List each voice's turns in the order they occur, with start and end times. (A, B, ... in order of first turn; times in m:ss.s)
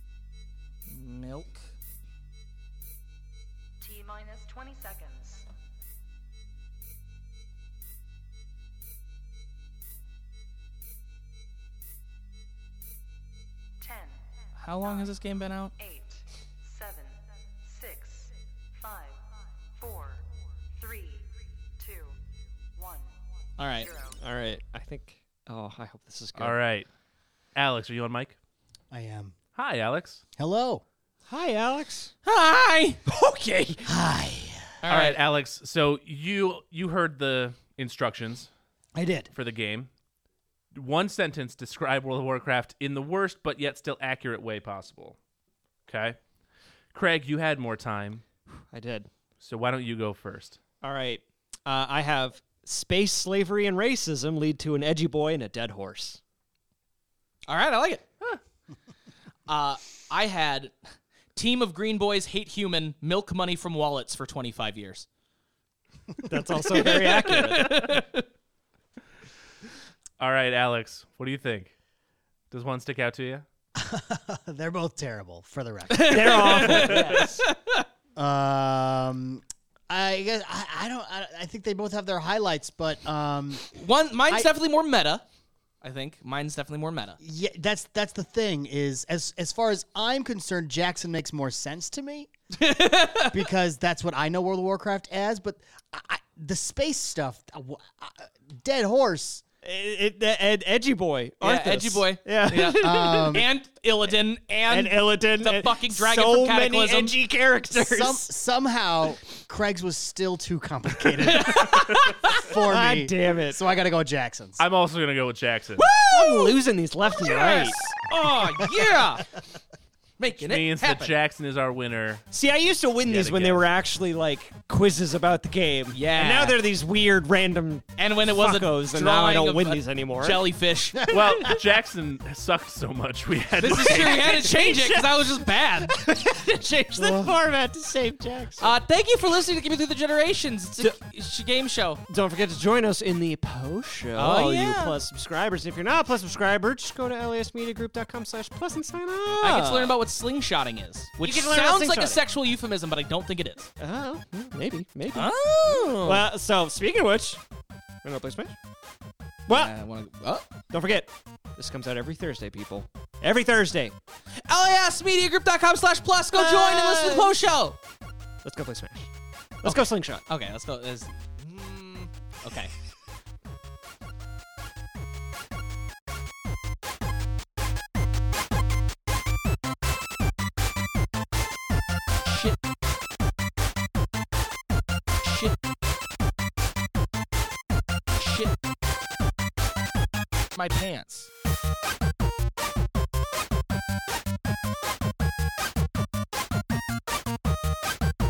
0:00.9-0:01.7 A
0:03.8-0:05.5 B
0:13.8-0:14.2 B
0:14.6-0:15.7 A
0:14.7-0:15.2 B
0:15.8-0:22.2 B
0:22.7-0:23.2 B
0:23.6-0:23.9 A
0:23.8-0:24.2 B
0:24.2-0:26.6 C
0:26.4-0:26.9 D
0:27.5-0:28.4 D
0:28.9-0:29.3 E
0:29.5-0:30.2 D
0:30.4-0:30.8 E
0:31.3-0:32.1 C
0:32.2-0:33.0 A
0:33.0-0:33.8 C
0:33.8-0:34.8 E
0:34.8-0:35.2 A
0:34.9-0:38.5 D
0:38.9-0:39.3 E
0:39.3-0:39.9 D
0:40.7-0:45.2 D
0:45.9-0:46.2 D
0:46.9-0:48.2 D
0:48.7-0:49.1 C
0:49.4-0:50.6 D
0:50.8-0:56.2 C
0:57.5-0:58.1 A
0:59.5-1:00.7 A
1:01.3-1:05.0 A
1:06.3-1:07.8 C
1:06.7-1:08.2 A
1:07.4-1:08.0 D
1:10.2-1:11.7 D
1:12.5-1:13.4 D
1:13.8-1:17.4 E
1:15.9-1:17.8 A
1:16.0-1:17.4 C
1:18.2-1:23.7 E
1:23.7-1:25.2 A
1:25.8-1:27.2 A
1:27.2-1:32.3 E
1:32.5-1:33.4 A
1:33.3-1:39.4 E
1:39.6-1:43.4 C
1:41.4-1:47.2 A
1:42.7-1:43.5 E
1:44.7-1:48.3 C
1:47.7-1:54.6 E
1:51.2-1:52.4 A
1:52.6-1:53.6 C
1:54.6-1:55.9 D
1:55.8-1:56.6 A
1:56.1-1:59.0 C
1:57.1-1:59.2 A
2:00.2-2:01.1 A
2:00.4-2:02.3 D
2:02.3-2:10.4 C
2:03.0-2:03.6 D
2:05.9-2:06.6 A
2:08.0-2:11.1 A
2:11.0-2:11.5 E
2:11.1-2:14.4 D
2:13.6-2:16.0 A
2:13.8-2:15.2 C
2:15.9-2:18.7 C
2:18.6-2:22.0 A
2:22.1-2:30.0 C
2:24.2-2:25.0 A
2:29.4-2:33.7 A
2:31.2-2:32.2 C
2:33.8-2:37.4 C
2:35.1-2:36.2 A
2:38.0-2:38.5 C
2:39.5-2:39.7 C
2:39.5-2:40.4 A
2:40.7-2:43.9 C
2:44.4-2:47.8 A
2:46.3-2:47.3 C
2:48.4-2:49.1 C
2:49.6-2:50.2 C
2:49.6-2:52.7 A
3:02.2-3:02.6 A
3:05.2-3:05.5 A
3:08.1-3:08.5 A
3:10.5-3:11.3 A